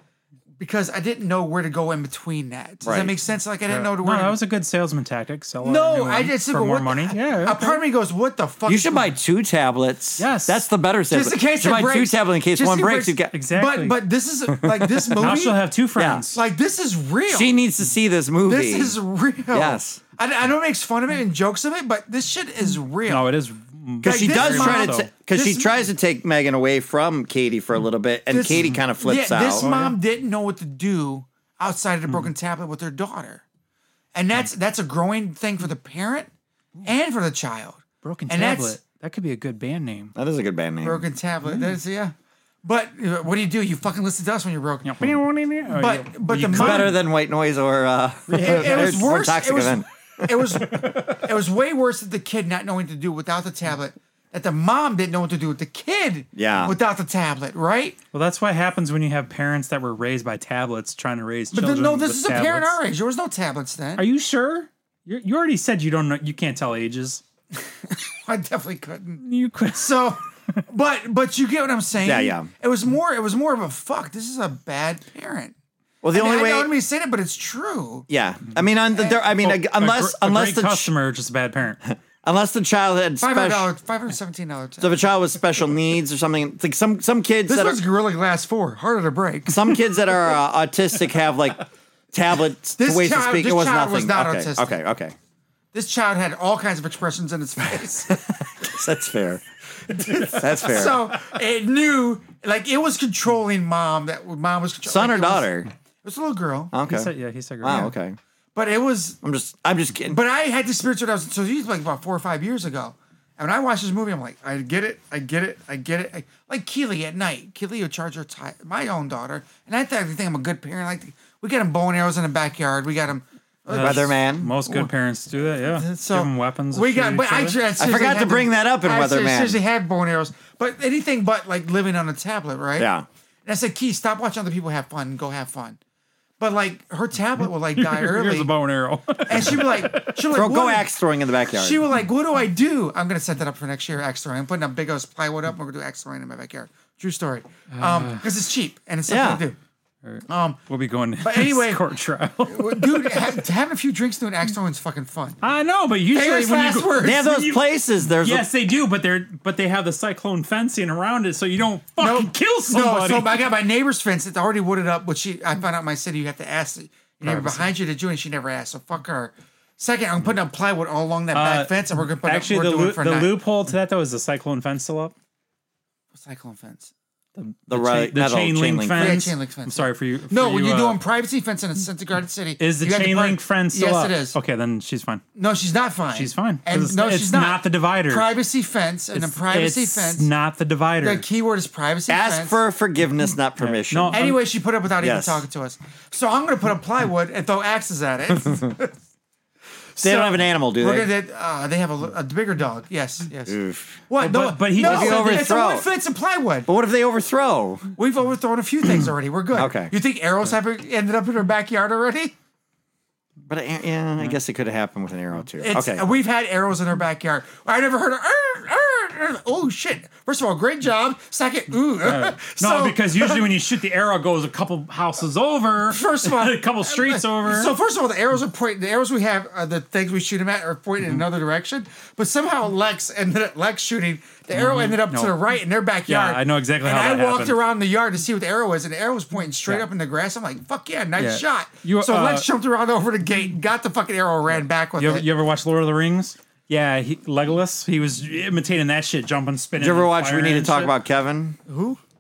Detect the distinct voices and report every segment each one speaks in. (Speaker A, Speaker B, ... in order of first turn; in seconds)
Speaker A: 0.6-4.4, 5.6-9.1, 11.1-15.6, 16.3-17.5, 18.5-23.3, 24.0-25.7, 28.3-33.4, 34.1-36.3, 36.8-38.8, 40.8-45.1, 45.8-47.0, 48.4-58.0, 61.5-64.1, 67.9-75.5, 76.1-78.1, 78.9-79.2, 83.2-85.0, 87.5-89.8, 92.8-94.8, 95.7-98.2, 99.9-105.5, 106.0-106.7, 108.5-109.2, 110.1-124.2, 125.6-132.9, 133.5-135.8, 136.4-138.5, 139.3-140.9, 141.5-149.6, 150.3-150.6, 151.2-151.9, 152.5-155.4, 156.1-157.3, 162.0-173.3, 176.2-176.9, 179.0-184.4, 185.4-190.3, 191.0-192.6, 194.1-198.9, 199.9-206.7, 208.0-212.3, 215.6-223.4, 225.9-245.2, 251.7-252.0
Speaker B: 2.8-3.1, 8.7-13.3, 14.6-15.3, 16.0-16.2, 17.3-18.9, 19.5-20.0, 24.0-29.7, 40.1-41.0, 46.5-50.3, 56.4-56.8, 72.0-72.5, 76.0-76.7, 78.1-80.9, 81.8-83.7, 84.8-87.8, 89.5-95.2, 98.1-99.4, 100.0-101.0, 104.8-105.7, 106.7-107.1, 107.6-108.2, 109.2-110.2, 123.8-124.5, 127.8-129.6, 132.8-133.1, 140.3-141.8, 149.1-149.4, 157.0-158.5, 177.7-179.2, 192.1-194.2, 195.0-195.4, 200.0-201.1, 203.5-204.0, 204.8-205.9, 206.7-207.9, 209.6-209.9, 213.5-216.0, 249.8-251.6
Speaker C: 3.7-7.8, 10.2-10.6, 13.3-14.0, 15.1-16.4, 23.1-25.1, 29.6-30.0, 38.0-40.1, 44.8-47.0, 48.3-49.1, 58.1-62.8, 64.0-67.2, 69.2-70.7, 79.2-81.8, 106.9-107.9, 123.7-127.6, 137.8-140.3, 147.7-148.2, 150.0-153.5, 155.4-163.4, 167.2-167.7, 171.3-175.1, 177.4-181.0, 182.6-185.2, 186.1-188.3, 189.2-191.2, 193.6-194.4, 204.2-205.5, 222.0-227.7, 234.5-235.4, 236.1-237.6, 241.2-242.5, 245.0-250.9